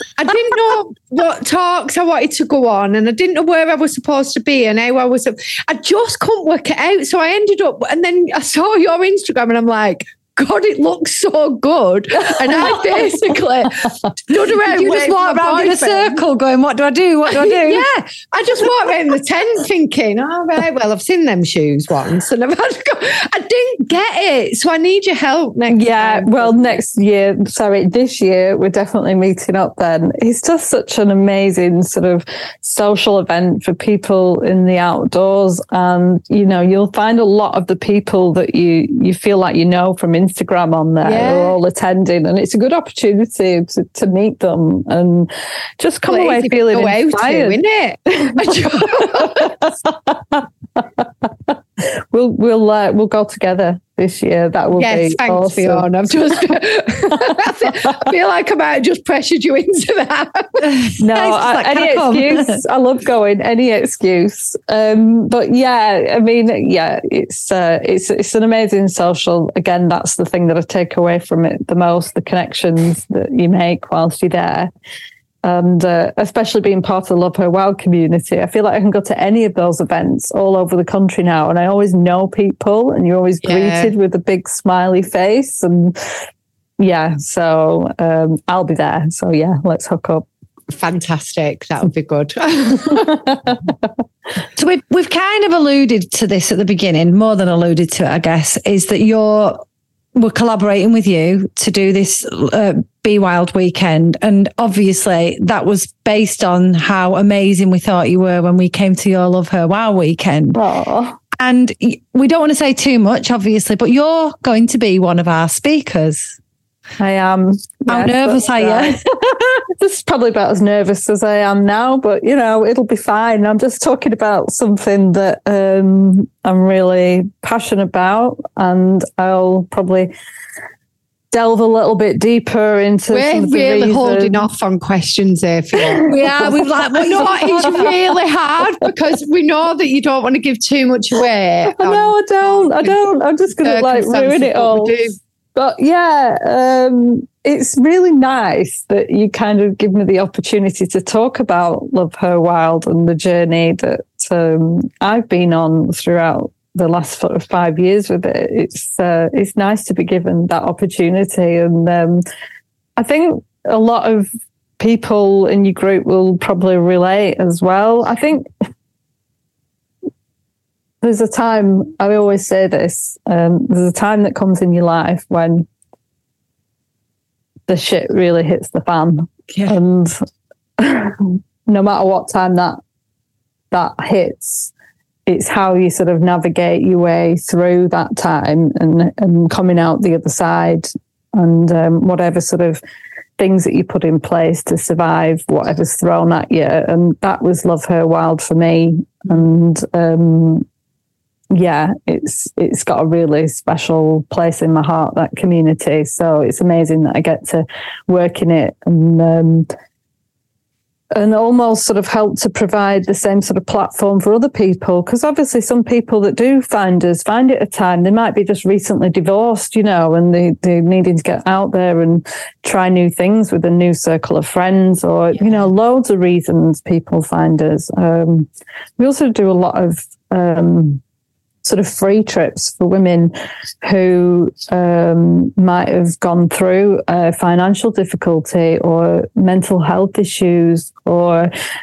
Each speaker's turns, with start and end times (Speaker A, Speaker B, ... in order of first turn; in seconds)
Speaker A: 0.2-16.2, 17.3-26.8, 41.0-41.6, 46.1-49.6, 54.8-60.6, 83.4-83.9, 90.7-93.3, 133.1-143.0, 143.6-145.2
Speaker B: 12.2-13.2, 25.7-55.9, 57.1-57.9, 61.0-74.7, 75.4-86.0, 86.8-90.3, 93.3-93.7, 110.5-111.2, 117.0-119.0, 119.8-130.1, 131.3-134.5, 135.8-136.6, 137.6-138.0, 141.7-145.0, 145.6-162.2, 163.0-168.5, 171.0-175.7, 177.7-180.2, 180.8-182.8, 183.7-184.7, 185.3-192.8, 193.4-200.7, 201.5-209.7, 211.1-231.0, 231.6-241.5
Speaker C: 14.6-17.9, 60.6-62.6, 94.6-99.6, 100.2-110.6, 111.4-116.4, 117.9-119.5, 136.1-138.0